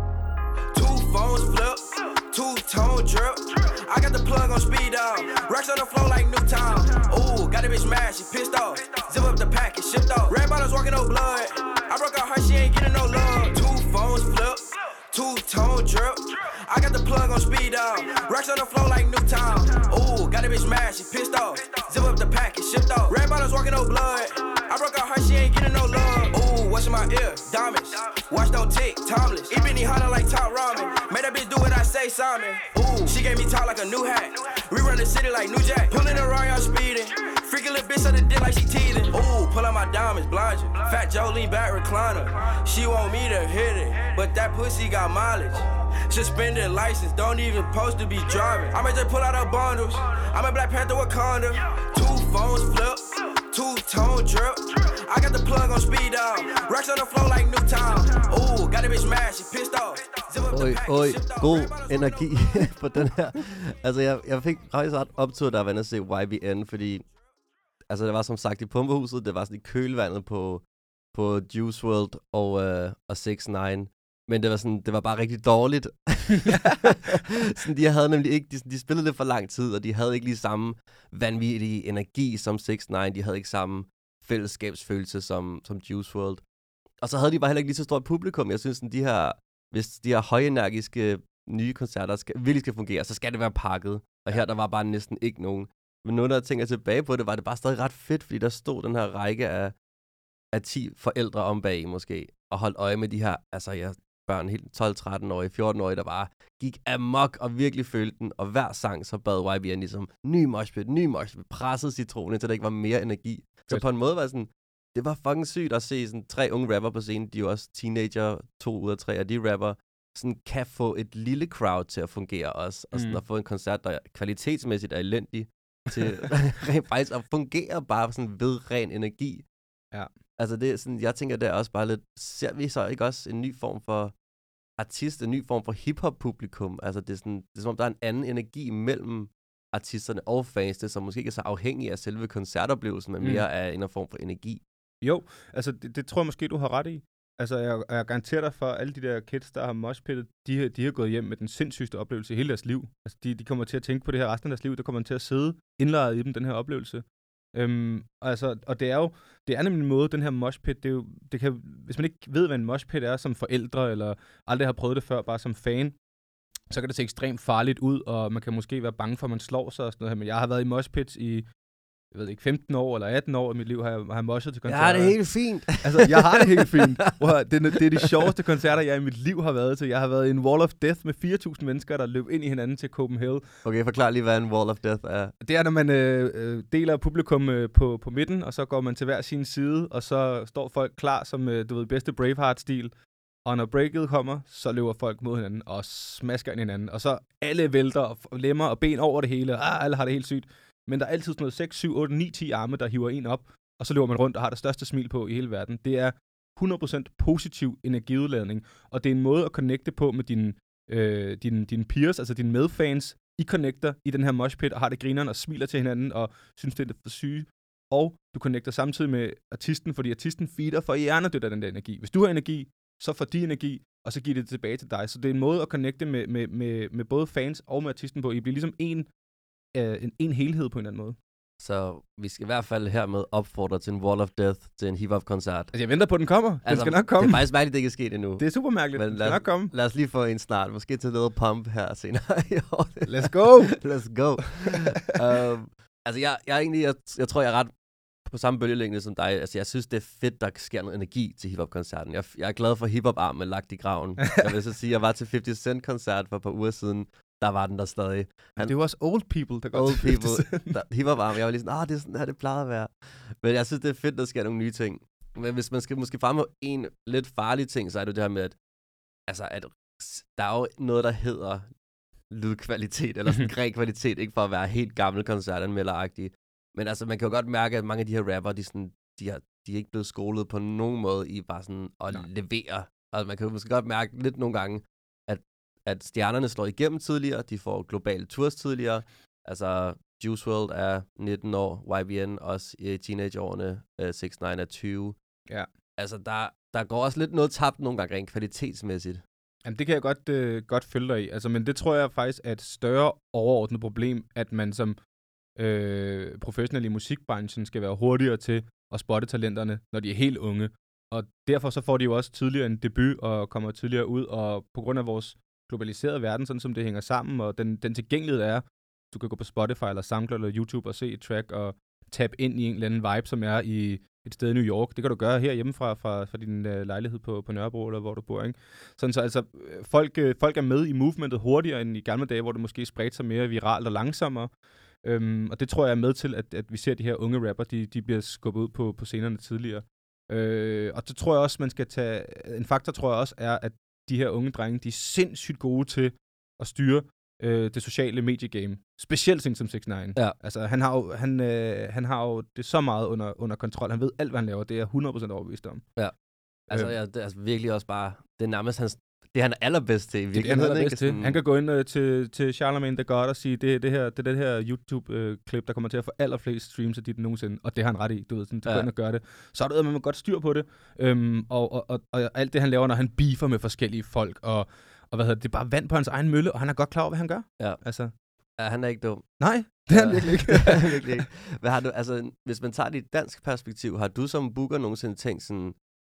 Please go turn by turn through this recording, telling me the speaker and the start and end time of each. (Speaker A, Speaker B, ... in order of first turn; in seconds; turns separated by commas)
Speaker A: 0.7-62.6, Speaker B: 60.5-67.0, Speaker B: 67.9-86.4, Speaker B: 87.0-99.7, Speaker B: 100.5-129.4, Speaker C: 122.9-123.2, Speaker B: 130.4-134.1, Speaker B: 134.8-144.6, Speaker C: 143.2-143.4, Speaker C: 145.0-157.0, Speaker C: 157.5-165.9, Speaker C: 166.7-171.5, Speaker C: 172.1-175.2, Speaker B: 174.7-177.1, Speaker C: 175.8-183.4, Speaker B: 183.6-185.3, Speaker C: 185.4-192.9, Speaker C: 193.4-229.1, Speaker C: 229.7-231.2, Speaker B: 231.6-235.7, Speaker C: 235.7-237.4, Speaker B: 236.6-247.7, Speaker C: 238.4-239.7, Speaker C: 243.1-243.8, Speaker B: 248.2-258.8, Speaker C: 258.6-260.7, Speaker B: 259.7-268.6, Speaker B: 269.3-271.7, Speaker B: 272.3-295.2, Speaker B: 296.0-299.2, Speaker C: 299.6-305.0, Speaker C: 305.6-334.5, Speaker C: 335.0-355.8, Speaker B: 356.7-361.4, Speaker C: 360.3-378.1, Speaker B: 378.6-385.8, Speaker C: 379.4-381.2